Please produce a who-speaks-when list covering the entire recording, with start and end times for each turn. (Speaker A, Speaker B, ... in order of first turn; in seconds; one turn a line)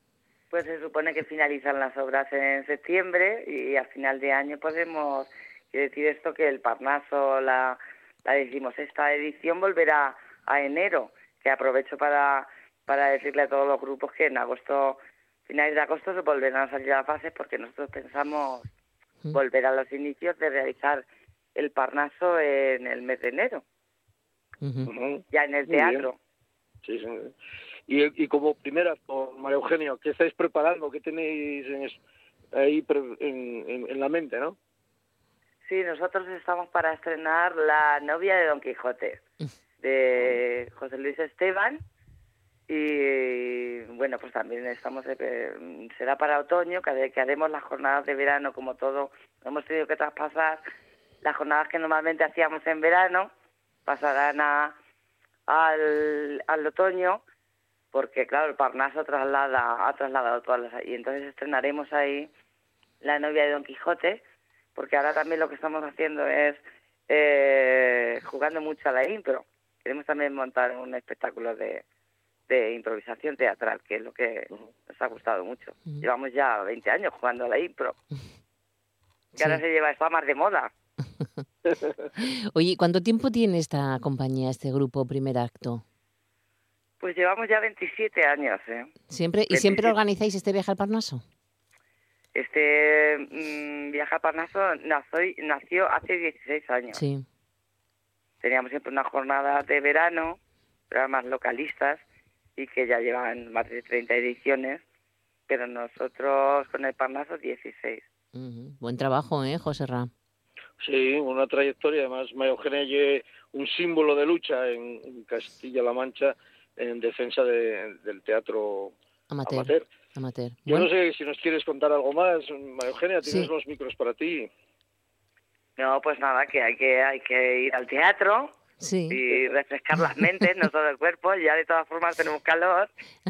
Speaker A: 0.5-18.7
Speaker A: 19.3-21.0
Speaker A: 21.6-23.6
Speaker B: 24.6-24.9
Speaker C: 24.9-26.1
Speaker A: 25.3-26.2
Speaker C: 26.8-27.3
Speaker C: 27.9-32.0
Speaker C: 32.5-34.5
Speaker A: 35.6-39.2
Speaker A: 39.8-41.8
Speaker A: 42.7-50.6
Speaker A: 51.2-53.3
Speaker A: 53.9-54.8
Speaker A: 55.5-57.2
Speaker A: 57.9-62.3
Speaker A: 63.0-64.2
Speaker A: 64.7-71.8
Speaker A: 72.5-78.0
Speaker B: 79.3-79.6
Speaker A: 79.4-80.7
Speaker B: 82.2-85.8
Speaker A: 87.0-88.9
Speaker B: 89.1-91.2
Speaker A: 89.5-90.0
Speaker A: 92.3-97.0
Speaker B: 96.9-97.2
Speaker A: 98.4-102.0
Speaker A: 102.6-104.8
Speaker A: 105.5-108.0
Speaker B: 108.3-110.1
Speaker C: 110.8-119.8
Speaker B: 119.3-120.9
Speaker C: 120.7-124.5
Speaker B: 123.2-123.5
Speaker A: 125.8-128.5
Speaker B: 128.8-129.2
Speaker A: 129.1-132.9